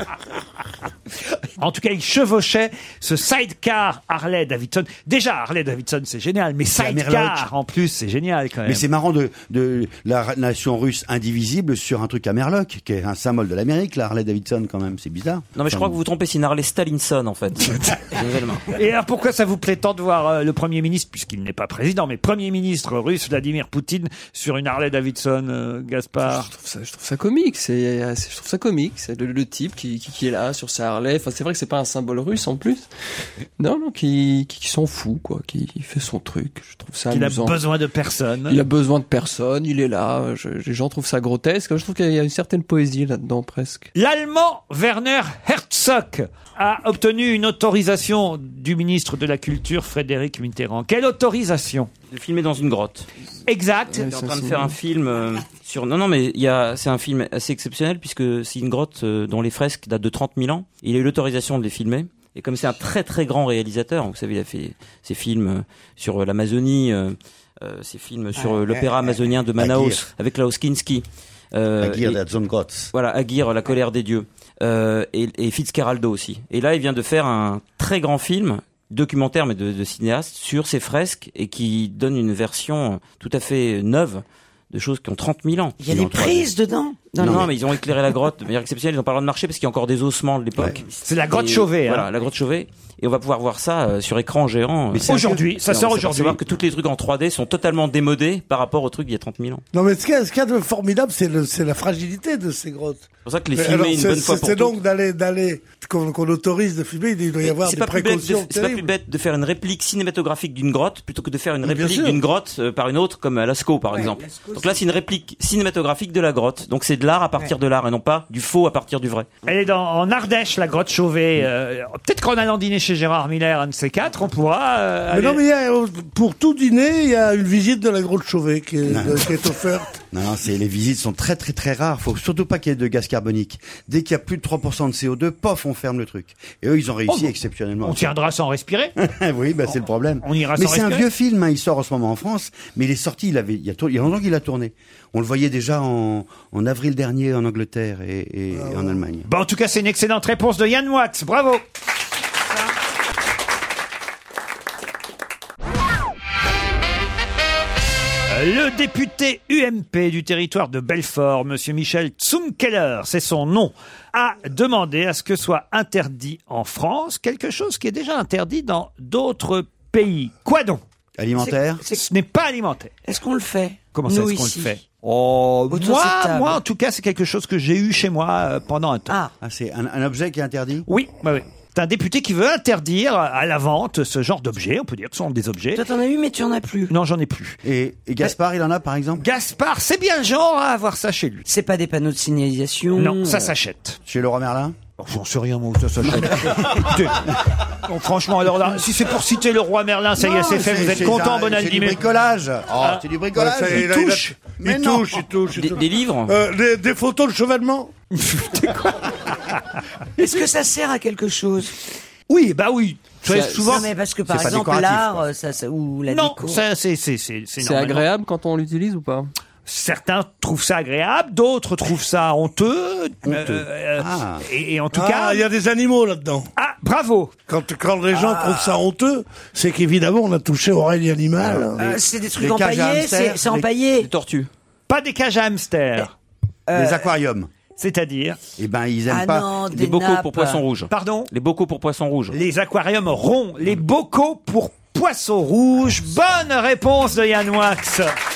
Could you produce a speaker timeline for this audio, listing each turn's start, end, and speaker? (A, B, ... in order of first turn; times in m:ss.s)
0:01.6-0:08.8 A
0:06.8-0:07.5 B
0:08.6-0:16.0 B
0:15.6-0:18.6 C
0:18.7-0:26.5 A
0:26.2-0:32.9 D
0:33.6-0:37.6 D
0:37.1-0:38.6 A
0:38.5-0:43.9 D
0:43.9-0:51.9 A
0:52.1-0:53.1 C
0:53.5-0:54.1 A
0:53.9-0:54.7 D
0:54.0-1:12.2 C
1:08.3-1:08.8 E
1:09.6-1:10.0 B
1:11.8-1:12.9 B
1:12.9-1:25.9 C
1:25.8-1:27.5 E
1:25.9-1:26.4 B
1:27.2-1:27.5 B
1:27.2-1:39.6 C
1:31.0-1:32.1 A
1:34.9-1:35.4 B
1:35.1-1:36.4 A
1:39.7-1:48.9 F
1:43.2-1:44.8 C
1:47.4-1:59.3 C
1:51.6-1:52.2 F
1:53.9-1:54.8 E
1:59.4-2:05.4 A
2:05.1-2:10.0 F
2:08.8-2:09.3 B
2:10.1-2:18.1 B
2:17.8-2:18.9 A
2:19.0-2:29.3 B
2:20.2-2:21.0 A
2:29.2-2:31.6 A
2:38.3-2:50.8 A
2:51.2-2:51.8 B
2:51.4-2:52.0 E
2:51.9-2:52.9 A
2:53.0-2:54.8 E
2:53.9-2:59.2 A
2:55.7-2:56.6 E
2:59.4-3:00.9 B
3:00.9-3:05.8 A
3:05.7-3:06.9 E
3:06.9-3:07.6 A
3:07.6-3:09.2 B
3:09.2-3:11.4 A
3:11.5-3:13.5 E
3:13.0-3:14.0 A
3:14.0-3:14.8 B
3:15.0-3:22.0 A
3:16.2-3:16.5 B
3:20.2-3:25.2 B
3:23.3-3:27.9 F
3:23.8-3:24.3 A
3:25.6-3:26.3 C
3:28.1-3:29.6 A
3:30.2-3:31.7 E
3:32.3-3:33.9 A
3:33.5-3:36.6 E
3:34.2-3:35.2 B
3:36.1-3:38.1 A
3:37.6-3:39.3 D
3:39.6-3:45.4 A
3:43.2-3:44.4 B
3:44.9-3:46.5 F
3:46.6-3:47.3 A
3:47.5-3:51.8 F
3:48.1-3:48.8 E
3:51.4-3:53.7 B
3:51.8-3:54.1 E
3:54.0-3:54.5 C
3:54.9-3:56.1 A
3:56.7-3:57.1 E
3:56.7-3:57.5 B
3:57.8-3:58.4 A
3:58.6-3:59.6 B
3:59.1-4:00.6 E
3:59.7-4:02.4 C
4:00.9-4:01.3 A
4:02.3-4:08.1 A